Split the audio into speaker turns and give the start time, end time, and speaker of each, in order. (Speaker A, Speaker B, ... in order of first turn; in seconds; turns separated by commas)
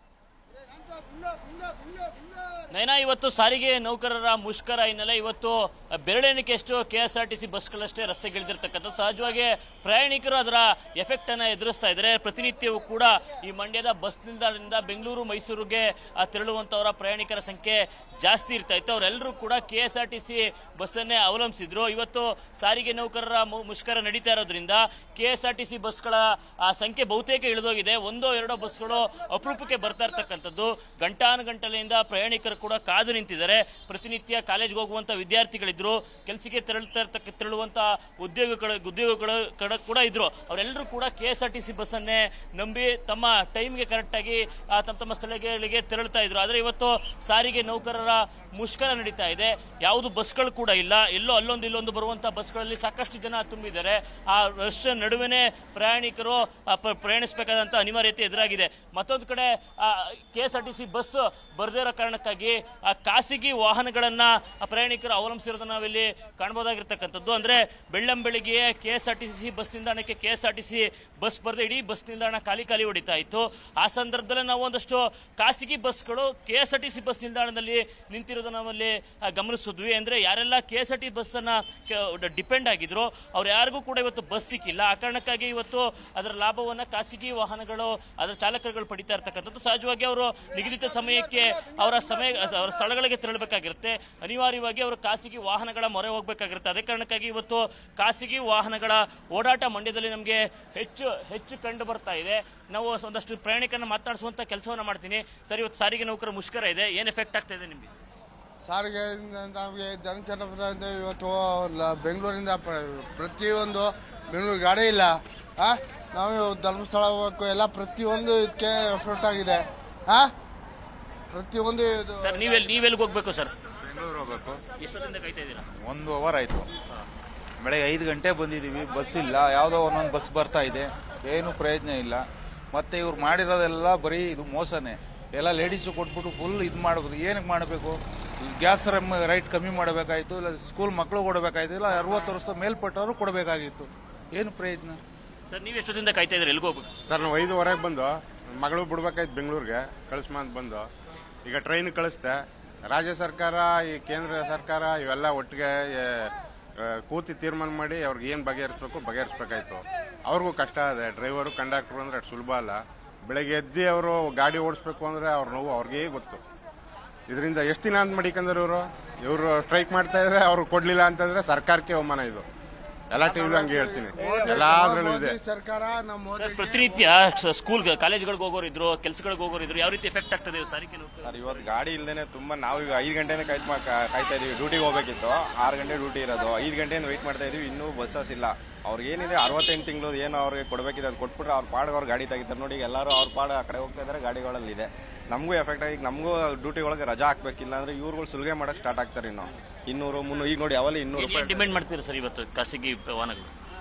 Speaker A: 2.7-107.9, Speaker B: 108.7-120.3, Speaker B: 121.3-122.1, Speaker A: 122.2-123.5, Speaker C: 123.9-124.6, Speaker A: 124.8-125.6, Speaker D: 125.7-126.7, Speaker D: 127.6-145.0, Speaker A: 145.5-146.9, Speaker C: 147.1-150.8, Speaker C: 151.4-166.4, Speaker C: 167.3-172.4, Speaker C: 173.1-175.4, Speaker B: 173.3-176.6, Speaker A: 176.4-181.7, Speaker E: 181.2-201.8, Speaker A: 201.1-203.5